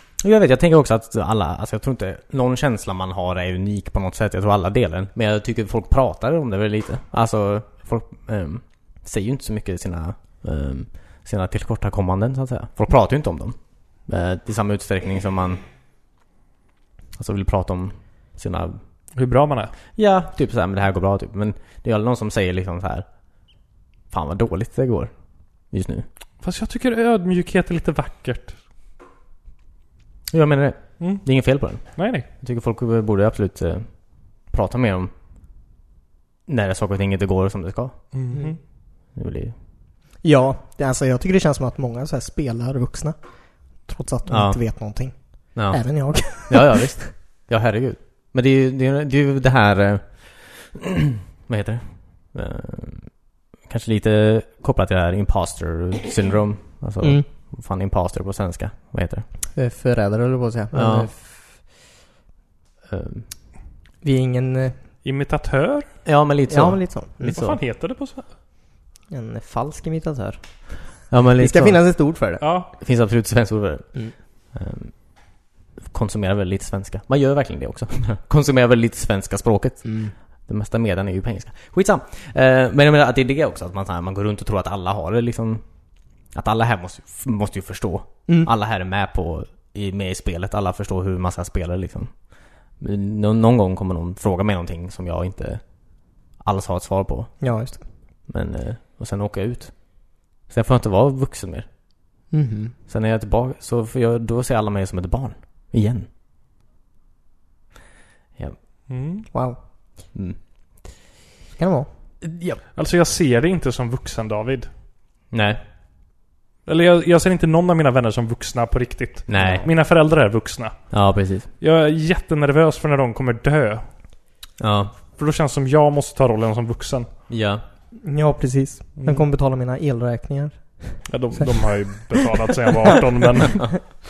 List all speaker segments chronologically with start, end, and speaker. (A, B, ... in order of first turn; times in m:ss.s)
0:00.2-0:15.6 A
0:17.2-0:18.8 A
0:19.2-0:19.7 B
0:20.0-0:23.1 A
0:24.1-0:26.1 A
0:26.4-0:28.6 B
0:30.3-0:35.1 A
0:31.0-0:32.3 B
0:36.5-0:38.0 A
0:38.1-0:38.6 B
0:39.1-0:39.6 A
0:40.2-0:47.1 C
0:44.3-0:44.6 A
0:45.6-0:59.3 A
0:57.0-0:57.3 C
0:59.6-1:01.3 C
1:00.7-1:01.1 A
1:02.9-1:03.3 A
1:04.0-1:04.8 C
1:05.0-1:05.9 B
1:06.0-1:07.6 A
1:06.5-1:07.4 C
1:07.2-1:08.3 B
1:09.1-1:12.5 C
1:11.1-1:11.8 A
1:12.4-1:12.7 B
1:12.7-1:25.6 A
1:19.8-1:20.1 C
1:26.3-1:32.2 A
1:32.8-1:35.6 A
1:36.2-1:37.4 A
1:37.4-1:37.8 C
1:38.3-1:41.7 A
1:42.3-1:42.8 C
1:42.9-1:46.1 A
1:48.9-1:49.3 B
1:49.3-1:49.6 C
1:50.1-1:50.4 A
1:51.5-1:51.9 C
1:52.2-1:52.6 A
1:52.7-1:54.7 B
1:55.3-1:55.6 A
1:56.7-2:00.9 B
1:59.3-1:59.7 A
2:00.9-2:01.5 A
2:01.6-2:03.8 B
2:04.6-2:04.9 A
2:05.2-2:07.1 B
2:07.3-2:07.6 A
2:08.0-2:11.4 C
2:09.0-2:09.2 B
2:11.1-2:13.8 B